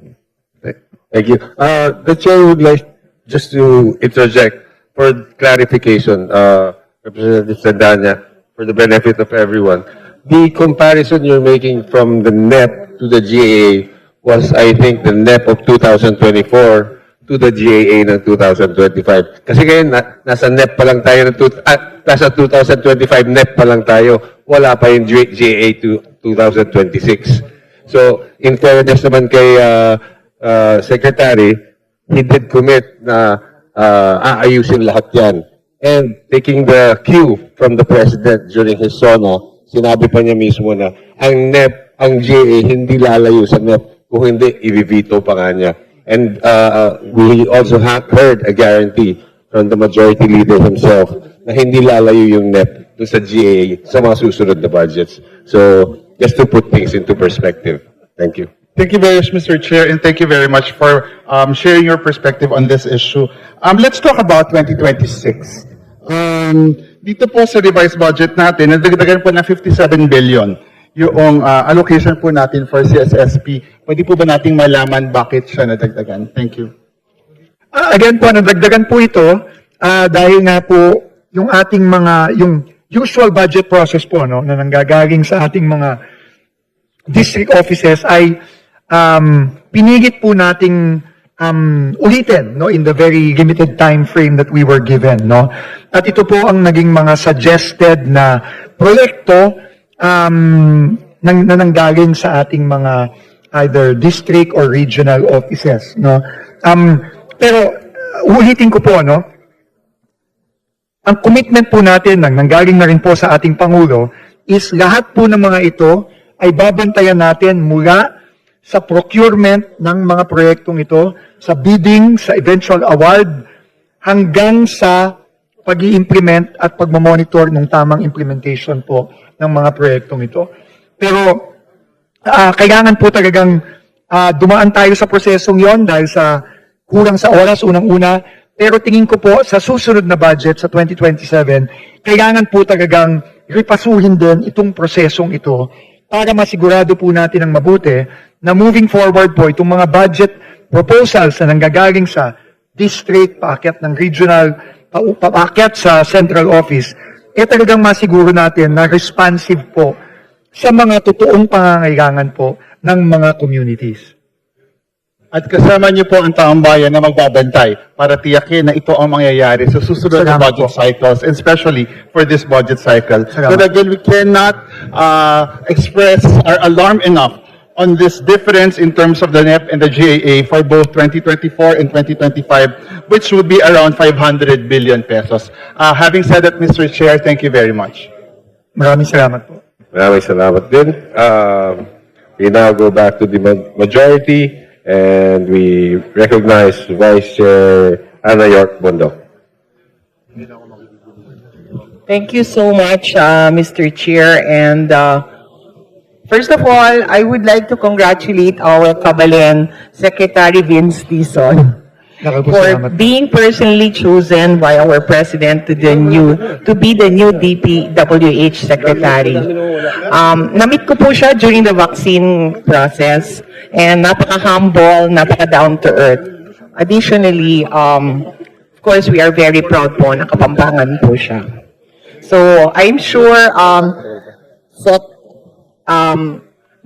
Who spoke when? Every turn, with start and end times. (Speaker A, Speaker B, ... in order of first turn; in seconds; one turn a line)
Speaker A: 0.6-58.5
Speaker B: 58.8-76.7
Speaker C: 77.7-86.0
Speaker C: 87.1-88.3
Speaker C: 88.9-109.2
Speaker C: 111.0-118.1
Speaker C: 118.7-123.4
Speaker C: 124.0-125.1
Speaker C: 125.7-130.5
Speaker C: 131.0-131.5
Speaker C: 132.3-133.6
Speaker C: 134.1-159.9
Speaker C: 160.6-164.1
Speaker B: 165.3-188.1
Speaker C: 170.1-170.7
Speaker C: 173.3-173.6
Speaker C: 188.8-189.6
Speaker A: 189.9-191.8
Speaker A: 192.4-199.1
Speaker D: 202.1-205.2
Speaker D: 206.3-211.7
Speaker C: 212.2-212.9
Speaker D: 212.5-219.5
Speaker D: 220.1-228.3
Speaker D: 228.8-231.4
Speaker D: 232.2-234.0
Speaker D: 234.8-235.1
Speaker D: 235.9-236.4